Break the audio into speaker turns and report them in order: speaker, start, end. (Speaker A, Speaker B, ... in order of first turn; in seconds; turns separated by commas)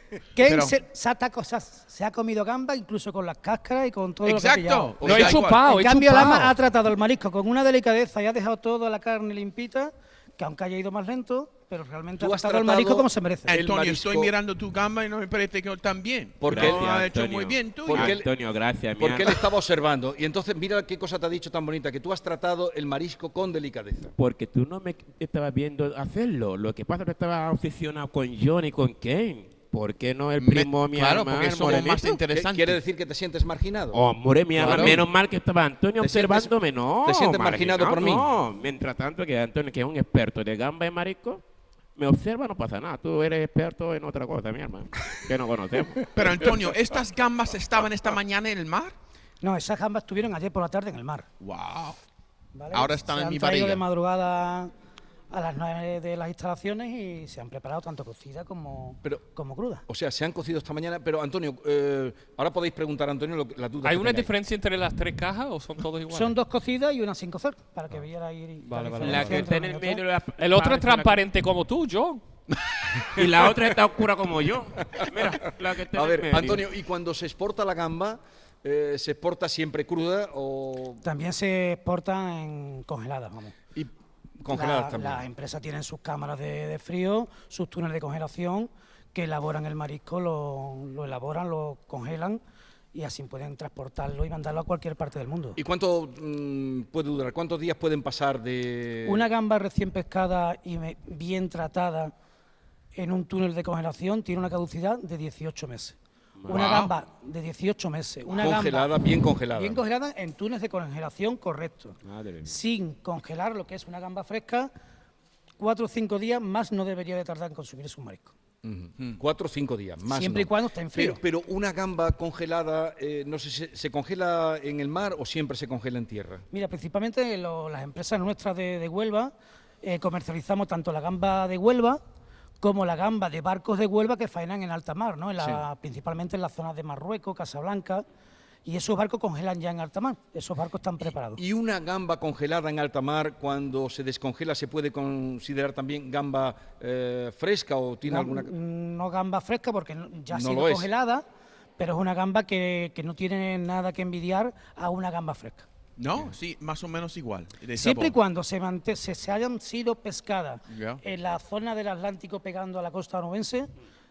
Speaker A: 0.3-13.6, Speaker B: 0.4-0.8, Speaker B: 4.2-5.6, Speaker C: 5.0-5.4, Speaker D: 5.0-6.6, Speaker C: 12.2-14.3, Speaker B: 13.5-18.1, Speaker C: 16.4-16.9, Speaker E: 16.5-19.4, Speaker C: 17.9-18.3, Speaker C: 19.0-24.1, Speaker E: 24.2-32.2, Speaker B: 30.4-32.8, Speaker C: 32.3-34.0, Speaker E: 33.9-41.4, Speaker B: 34.6-35.0, Speaker C: 34.6-35.0, Speaker C: 36.0-36.5, Speaker C: 37.0-38.3, Speaker E: 42.0-46.0, Speaker B: 46.1-48.9, Speaker A: 49.4-51.3, Speaker B: 51.4-52.0, Speaker A: 52.5-54.7, Speaker B: 52.7-53.8, Speaker A: 55.3-59.8, Speaker C: 59.9-64.3, Speaker D: 63.8-66.4, Speaker A: 66.1-70.0, Speaker D: 68.6-69.5, Speaker E: 69.0-71.2, Speaker D: 70.4-72.2, Speaker E: 73.1-76.7, Speaker C: 75.0-75.4, Speaker C: 75.9-81.0, Speaker A: 81.0-83.5, Speaker C: 84.4-85.2, Speaker A: 84.4-92.4, Speaker A: 92.9-95.6, Speaker C: 95.6-99.3, Speaker A: 99.0-102.1, Speaker A: 102.9-106.0, Speaker E: 106.4-106.8, Speaker A: 106.5-108.9, Speaker B: 106.5-106.9, Speaker C: 108.3-109.8, Speaker A: 109.5-114.7, Speaker E: 112.0-112.6, Speaker A: 115.6-118.3, Speaker C: 118.6-126.4, Speaker A: 120.1-121.2, Speaker A: 126.5-132.0, Speaker A: 132.6-138.0, Speaker C: 135.4-135.6, Speaker A: 138.6-141.4, Speaker C: 141.4-148.5, Speaker A: 148.1-151.2, Speaker C: 150.3-150.9, Speaker A: 151.8-155.7, Speaker B: 156.0-158.2, Speaker A: 157.7-163.7, Speaker B: 160.7-161.0